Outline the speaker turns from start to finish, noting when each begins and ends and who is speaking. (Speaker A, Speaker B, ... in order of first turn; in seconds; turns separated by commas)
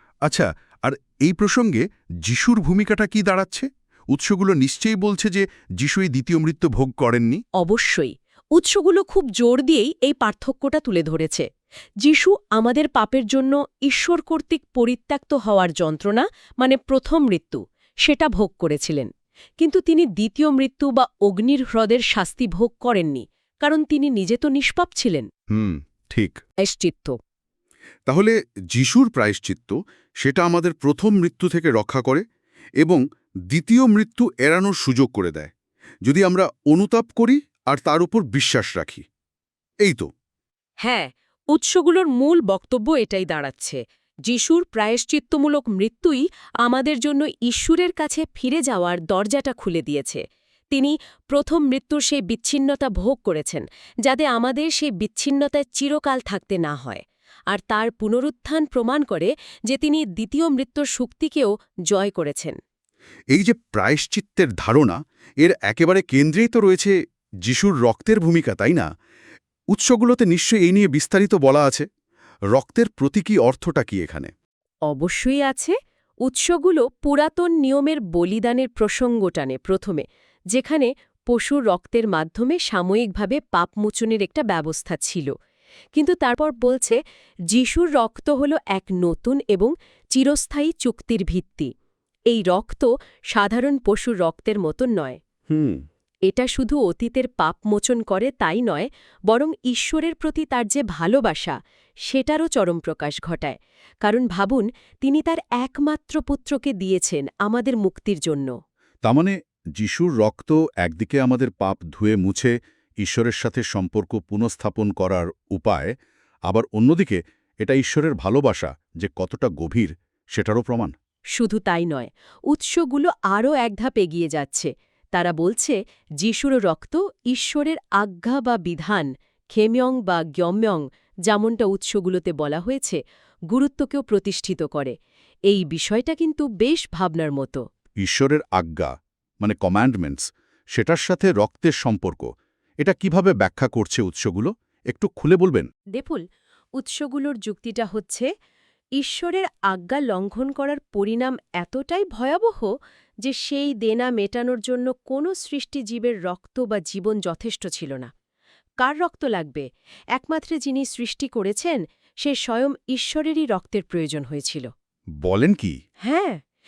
Speaker A: 0.3-7.4, Speaker B: 7.6-11.5, Speaker B: 12.0-25.3, Speaker A: 25.5-26.4, Speaker B: 26.6-27.2, Speaker A: 28.1-32.2, Speaker A: 32.8-35.5, Speaker A: 36.0-39.0, Speaker B: 40.8-62.6, Speaker A: 63.3-66.9, Speaker A: 67.5-68.9, Speaker A: 69.7-71.9, Speaker A: 72.5-74.3, Speaker B: 74.9-85.3, Speaker B: 86.0-87.0, Speaker B: 87.5-91.7, Speaker B: 92.3-95.2, Speaker A: 95.5-95.8, Speaker B: 96.3-108.5, Speaker A: 109.0-115.9, Speaker A: 116.5-120.9, Speaker B: 121.3-133.0, Speaker B: 133.5-134.9, Speaker B: 135.5-137.6, Speaker A: 138.0-142.3, Speaker A: 142.8-145.7, Speaker B: 145.9-146.2, Speaker B: 146.8-148.3, Speaker B: 149.0-152.7, Speaker B: 153.2-158.1, Speaker B: 158.8-164.7, Speaker A: 165.2-165.8, Speaker B: 166.0-166.4